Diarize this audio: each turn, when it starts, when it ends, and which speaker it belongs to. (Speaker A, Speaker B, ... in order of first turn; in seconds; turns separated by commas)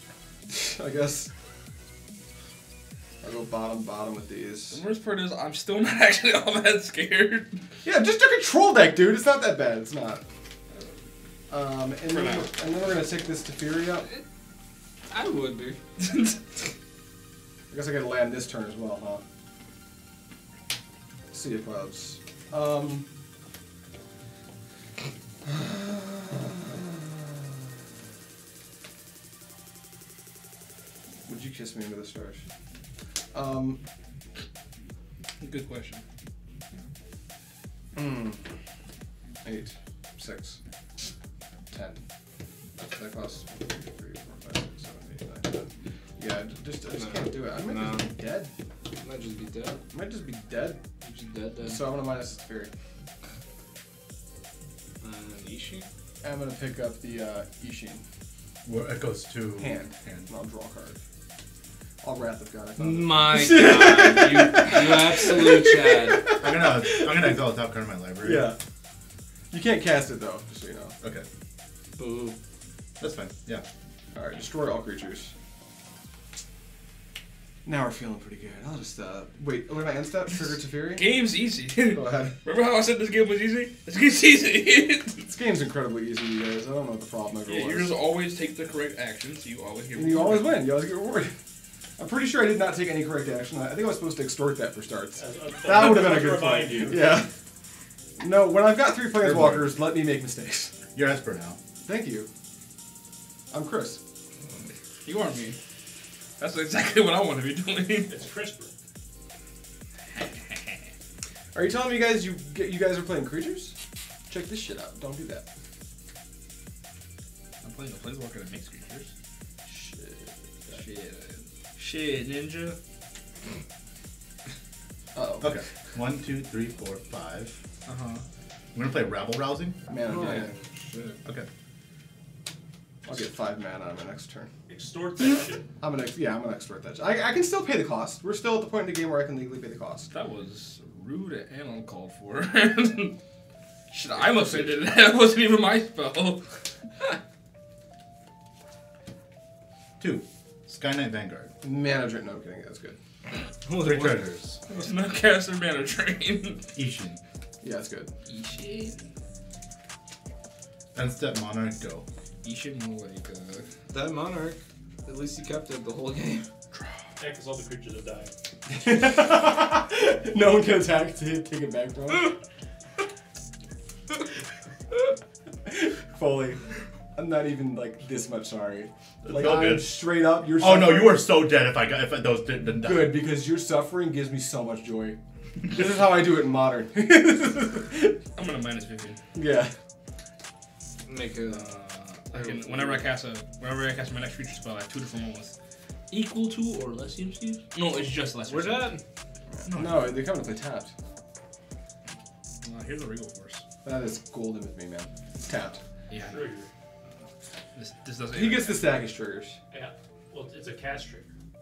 Speaker A: 0.5-1.3, Speaker A: 3.2-4.8, Speaker B: 4.7-7.6, Speaker A: 7.8-10.2, Speaker A: 11.5-14.1, Speaker B: 12.1-12.5, Speaker C: 15.1-15.8, Speaker B: 16.0-16.7, Speaker A: 17.7-19.2, Speaker A: 21.3-23.1, Speaker A: 25.4-27.4, Speaker A: 31.3-32.4, Speaker A: 33.3-33.8, Speaker B: 35.4-36.0, Speaker A: 38.0-38.4, Speaker A: 39.4-40.6, Speaker A: 41.7-42.0, Speaker A: 42.8-48.5, Speaker C: 46.9-48.1, Speaker C: 49.0-49.8, Speaker A: 49.9-50.8, Speaker C: 51.0-51.9, Speaker A: 51.6-52.7, Speaker C: 55.0-55.9, Speaker A: 56.2-58.0, Speaker D: 58.6-60.3, Speaker A: 59.6-61.0, Speaker A: 62.0-67.4, Speaker C: 62.8-66.2, Speaker D: 66.4-68.5, Speaker A: 68.2-68.6, Speaker A: 69.5-70.9, Speaker D: 71.0-71.3, Speaker C: 71.9-72.4, Speaker D: 73.0-73.6, Speaker A: 74.1-75.3, Speaker A: 77.6-81.1, Speaker B: 80.9-85.3, Speaker A: 81.9-82.3, Speaker A: 85.2-87.9, Speaker B: 87.5-90.6, Speaker A: 89.9-91.3, Speaker A: 92.0-97.3, Speaker E: 95.2-97.2, Speaker A: 98.2-100.7, Speaker D: 99.1-99.8, Speaker D: 100.9-101.6, Speaker A: 101.8-102.3, Speaker A: 103.5-104.0, Speaker B: 105.0-105.6, Speaker B: 106.4-108.1, Speaker E: 108.1-108.7, Speaker B: 110.1-110.8, Speaker A: 111.5-113.8, Speaker A: 114.3-115.5, Speaker B: 117.6-119.1, Speaker A: 119.6-120.8, Speaker B: 120.7-122.8, Speaker A: 125.1-125.6, Speaker D: 125.4-127.6, Speaker B: 127.8-128.2, Speaker D: 128.7-129.8, Speaker A: 129.9-130.5, Speaker C: 130.0-131.2, Speaker A: 133.1-134.5, Speaker E: 134.7-135.7, Speaker A: 135.8-140.1, Speaker B: 140.1-143.2, Speaker B: 143.9-146.5, Speaker A: 144.1-144.7, Speaker D: 150.0-151.5, Speaker A: 151.6-153.0, Speaker B: 153.7-156.6, Speaker D: 153.8-154.6, Speaker D: 156.7-157.2, Speaker A: 157.6-158.1, Speaker B: 158.2-159.1, Speaker D: 160.9-162.0, Speaker B: 162.4-163.7, Speaker C: 163.9-166.5, Speaker E: 167.2-168.3, Speaker A: 168.7-172.4, Speaker A: 175.7-176.6, Speaker A: 177.1-181.2, Speaker D: 179.2-183.2, Speaker A: 182.8-185.2, Speaker A: 185.7-188.2, Speaker B: 188.3-189.2, Speaker A: 189.3-189.7, Speaker C: 191.1-191.7, Speaker B: 191.5-195.5, Speaker A: 192.4-193.0, Speaker B: 196.1-199.0, Speaker C: 198.4-199.0, Speaker A: 199.6-200.9, Speaker B: 199.7-200.2, Speaker B: 202.6-203.6, Speaker A: 203.8-205.8, Speaker B: 206.1-206.4, Speaker E: 206.1-206.7, Speaker B: 207.7-208.9, Speaker A: 208.3-209.6, Speaker E: 209.7-211.2